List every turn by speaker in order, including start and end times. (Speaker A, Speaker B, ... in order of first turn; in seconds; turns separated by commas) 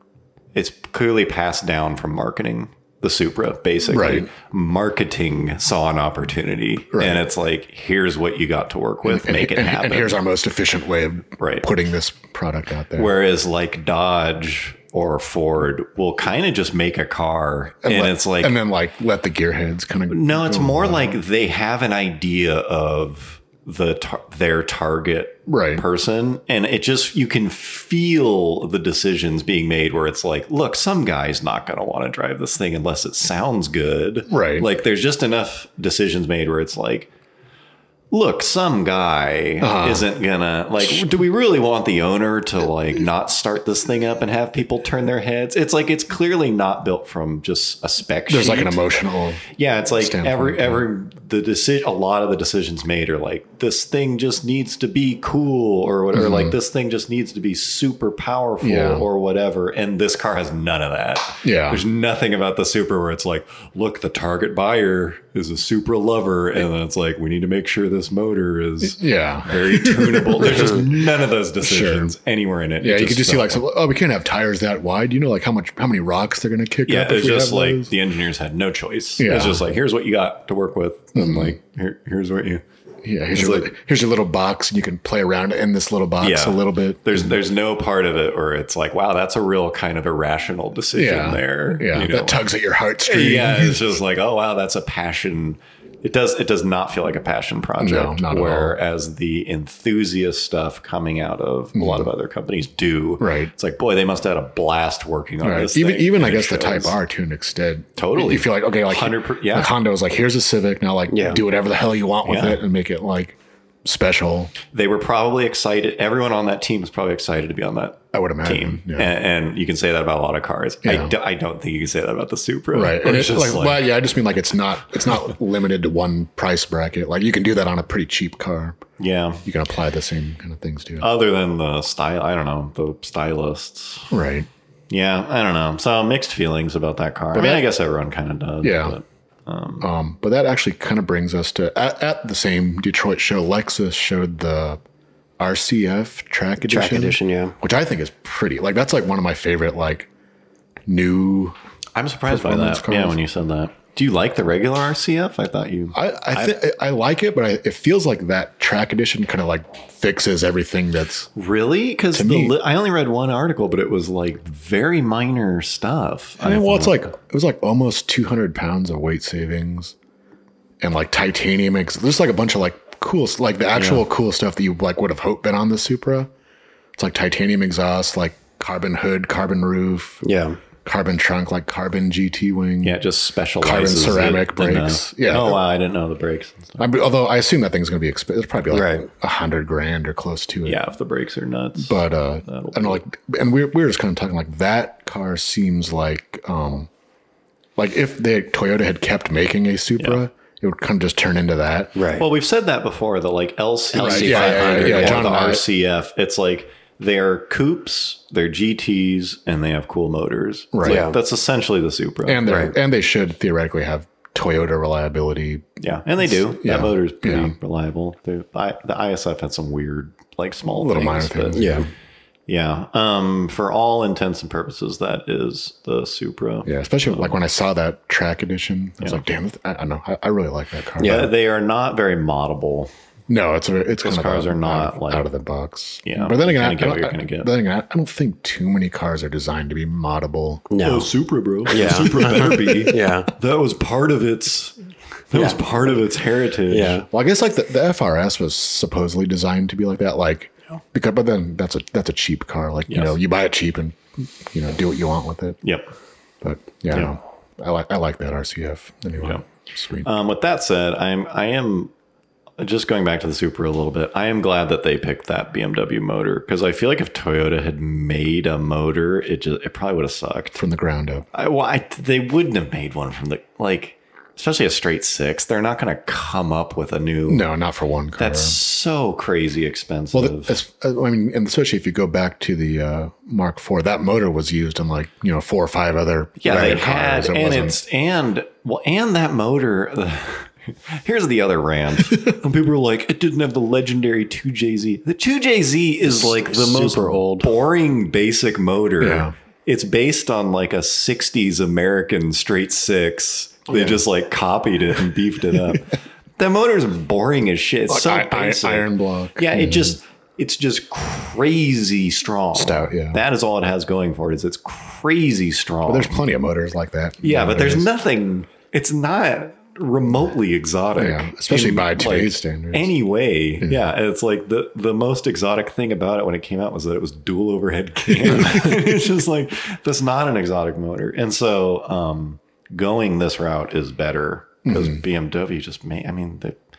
Speaker A: 0.5-10.2, Speaker B: 3.9-4.3, Speaker B: 6.9-7.2, Speaker B: 9.0-13.1, Speaker A: 11.4-11.7, Speaker A: 12.9-18.6, Speaker B: 17.8-21.2, Speaker A: 20.1-37.1, Speaker B: 25.5-25.8, Speaker B: 34.3-34.7, Speaker A: 38.1-48.8, Speaker B: 39.6-40.1, Speaker B: 48.3-50.9, Speaker A: 49.5-73.6, Speaker B: 56.1-56.5, Speaker B: 58.6-59.1, Speaker B: 61.4-61.8, Speaker B: 68.8-70.9, Speaker B: 71.6-72.1, Speaker B: 72.8-77.9, Speaker A: 76.8-82.6, Speaker B: 79.2-79.6, Speaker B: 81.1-81.5, Speaker B: 83.0-87.4, Speaker A: 83.3-83.7, Speaker A: 86.2-92.4, Speaker B: 90.9-93.9, Speaker A: 93.0-107.0, Speaker B: 97.8-98.8, Speaker B: 101.7-102.1, Speaker B: 103.2-103.5, Speaker B: 105.4-114.5, Speaker A: 108.0-109.7, Speaker C: 111.1-111.4, Speaker A: 112.2-112.6, Speaker A: 114.7-123.9, Speaker B: 118.1-119.1, Speaker B: 120.8-121.1, Speaker B: 122.7-128.8, Speaker A: 129.0-129.4, Speaker B: 129.4-131.1, Speaker A: 131.0-134.1, Speaker B: 134.1-134.5, Speaker A: 134.9-139.9, Speaker B: 137.3-137.7, Speaker B: 138.6-139.0, Speaker B: 139.8-144.8, Speaker B: 145.4-150.1, Speaker C: 146.7-147.5, Speaker B: 150.9-151.6, Speaker A: 151.9-155.9, Speaker B: 152.2-153.2, Speaker B: 155.9-161.3, Speaker A: 161.3-167.1, Speaker B: 162.1-162.6, Speaker B: 166.4-169.9, Speaker B: 170.8-176.3, Speaker B: 176.9-180.2, Speaker C: 180.2-180.6, Speaker B: 180.8-183.0, Speaker A: 182.8-186.8, Speaker B: 183.6-185.6, Speaker B: 186.8-190.8, Speaker C: 188.7-189.0, Speaker A: 190.6-193.0, Speaker B: 191.8-196.9, Speaker B: 197.8-202.0, Speaker C: 201.9-202.2, Speaker A: 202.2-212.5, Speaker C: 203.9-205.3, Speaker B: 204.0-205.6, Speaker B: 210.7-211.1, Speaker C: 210.8-211.2, Speaker B: 212.2-215.7, Speaker C: 212.5-212.7, Speaker A: 215.8-221.8, Speaker B: 216.2-217.5, Speaker B: 220.7-221.8, Speaker C: 221.5-221.9, Speaker A: 222.5-227.4, Speaker B: 226.6-231.3, Speaker C: 231.0-231.3, Speaker A: 231.0-232.9, Speaker B: 233.3-240.7, Speaker A: 234.0-235.3, Speaker A: 236.0-237.5, Speaker C: 240.7-241.1, Speaker A: 240.8-244.8, Speaker C: 241.7-243.3, Speaker A: 245.3-247.0, Speaker C: 245.3-245.6, Speaker C: 246.7-247.1, Speaker B: 247.1-255.6, Speaker A: 252.9-253.2, Speaker A: 255.6-255.9, Speaker B: 256.4-260.1, Speaker A: 259.2-259.4, Speaker A: 260.0-261.9, Speaker A: 262.6-270.6, Speaker B: 270.6-271.2, Speaker A: 271.3-277.4, Speaker B: 277.3-278.6, Speaker A: 278.2-280.6, Speaker B: 280.1-287.8, Speaker A: 286.4-316.2, Speaker C: 286.5-286.8, Speaker C: 296.1-297.5, Speaker B: 299.0-299.3, Speaker C: 303.7-304.0, Speaker B: 307.9-310.0, Speaker B: 312.5-313.2, Speaker B: 315.9-317.9, Speaker A: 317.2-336.6, Speaker B: 320.9-322.9, Speaker B: 328.2-328.7, Speaker B: 334.6-335.0